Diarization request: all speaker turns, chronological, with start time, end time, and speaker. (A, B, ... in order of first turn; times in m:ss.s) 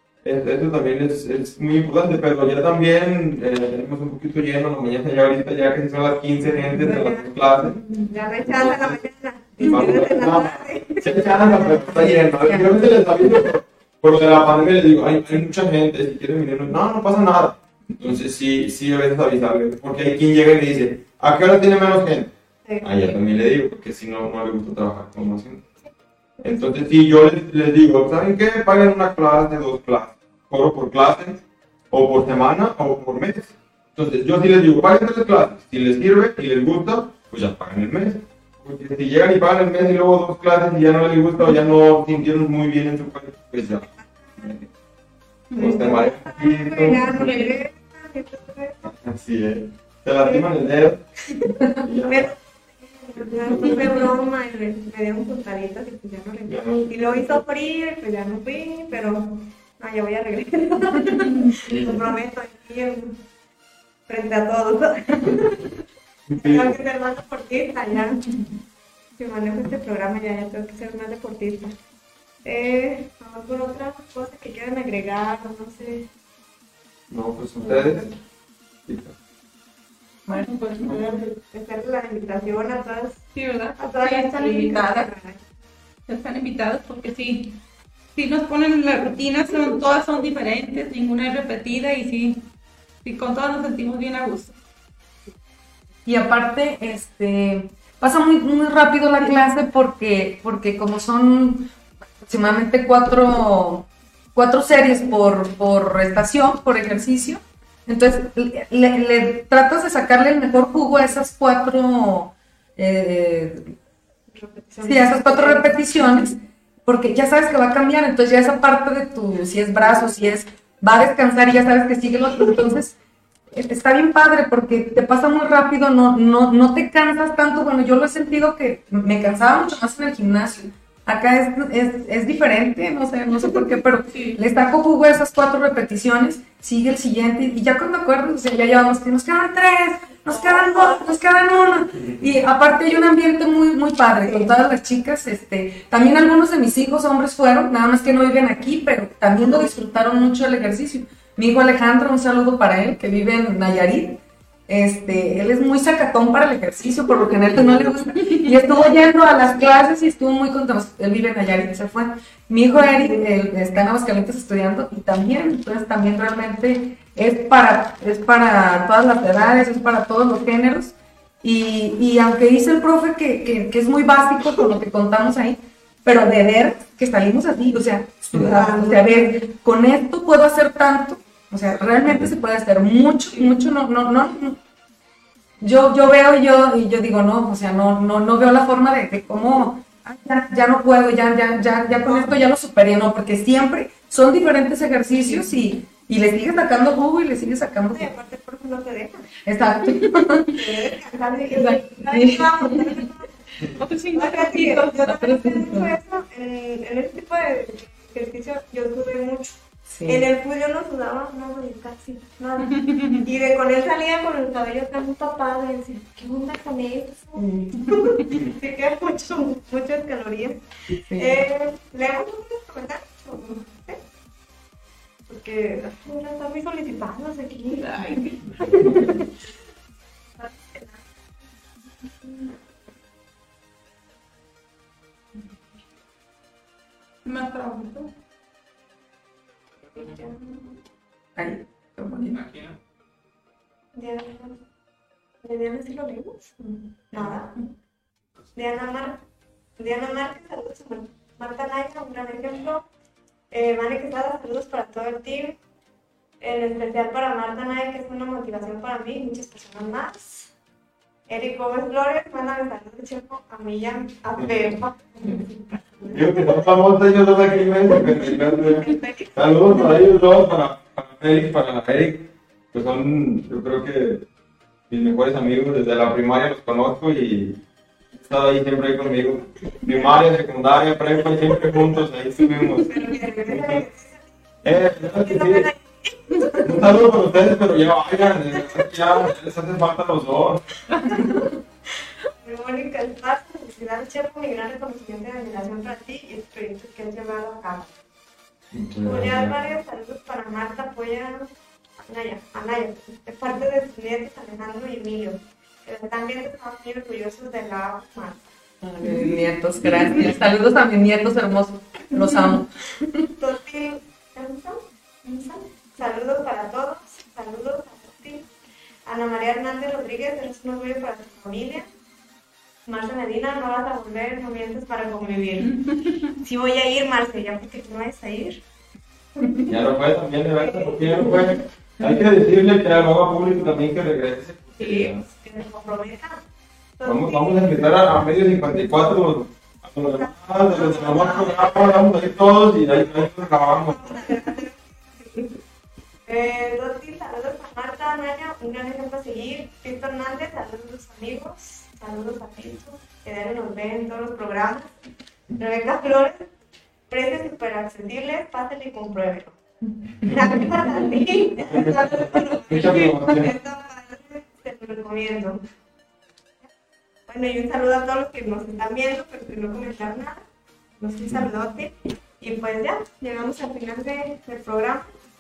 0:00.2-0:07.8 A
0:06.8-0:07.3 B
0:08.0-0:12.2 B
0:08.4-0:09.0 A
0:09.6-0:25.6 A
0:12.4-0:12.7 C
0:22.6-0:23.2 B
0:26.4-0:43.9 A
0:43.8-0:44.6 B
0:45.5-0:45.8 D
0:45.5-0:48.9 B
0:45.5-0:47.5 A
0:47.2-0:47.4 D
0:48.8-0:51.0 A
0:50.2-0:50.5 B
0:51.3-1:03.2 B
0:51.7-0:52.3 A
0:53.2-0:54.1 A
0:56.5-0:57.4 A
1:01.6-1:02.0 A
1:04.1-1:05.7 B
1:06.3-1:06.8 A
1:06.4-1:08.3 B
1:09.2-1:11.7 B
1:12.4-1:16.1 B
1:17.1-1:18.1 A
1:17.6-1:18.1 B
1:18.9-1:19.1 A
1:20.3-1:21.0 D
1:20.8-1:23.2 B
1:23.3-1:25.1 D
1:23.8-1:25.4 B
1:26.1-1:27.6 D
1:28.1-1:32.5 D
1:33.0-1:34.6 D
1:36.0-1:41.7 C
1:42.2-1:53.7 C
1:54.3-1:55.7 B
1:54.8-2:02.9 C
2:03.5-3:04.6 C
2:14.1-2:14.4 D
2:20.2-2:21.0 B
2:38.1-2:38.4 D
2:42.7-2:43.2 B
2:58.4-2:59.4 B
3:01.6-3:02.3 A
3:05.6-3:18.1 C
3:17.9-3:19.3 B
3:19.4-3:20.7 C
3:20.5-3:23.3 B
3:21.5-3:22.8 C
3:23.8-3:25.1 D
3:24.1-3:32.7 B
3:25.0-3:25.9 C
3:29.9-3:30.2 C
3:32.6-3:33.2 D
3:33.2-3:44.0 B
3:37.4-3:37.9 C
3:41.0-3:41.4 C
3:45.3-3:49.3 B
3:47.8-3:48.9 D
3:48.7-3:49.2 A
3:50.4-3:51.0 B
3:52.2-3:52.5 B
3:57.2-3:58.1 D
3:59.9-4:00.7 B
4:01.4-4:02.5 C
4:03.9-4:04.6 B
4:05.4-4:07.6 B
4:08.5-4:09.2 B
4:09.8-4:12.8 B
4:13.5-4:15.6 B
4:16.4-4:20.5 B
4:21.3-4:26.7 B
4:24.4-4:24.7 A
4:26.1-4:34.2 A
4:27.6-4:29.9 B
4:34.9-4:37.6 A
4:38.1-4:43.8 A
4:42.8-4:47.0 B
4:44.6-4:45.7 A
4:46.6-4:50.6 A
4:51.0-4:51.5 B
4:52.4-4:58.0 B
4:58.7-4:59.5 A
4:59.0-5:08.5 B
5:08.8-5:13.3 C
5:09.9-5:10.1 A
5:13.4-5:18.5 B
5:19.0-5:21.9 B
5:22.8-5:25.7 B
5:25.6-5:26.3 D
5:26.4-5:28.6 B
5:29.7-5:35.2 A
5:30.6-5:31.5 B
5:34.8-5:36.4 B
5:37.0-5:38.0 B
5:37.0-5:44.4 A
5:40.1-5:42.0 B
5:43.1-5:45.6 B
5:46.3-5:54.9 B
5:55.6-5:56.5 B
5:57.1-6:05.6 B
6:00.2-6:01.0 A
6:01.6-6:03.5 A
6:07.3-6:10.4 B
6:11.0-6:15.1 B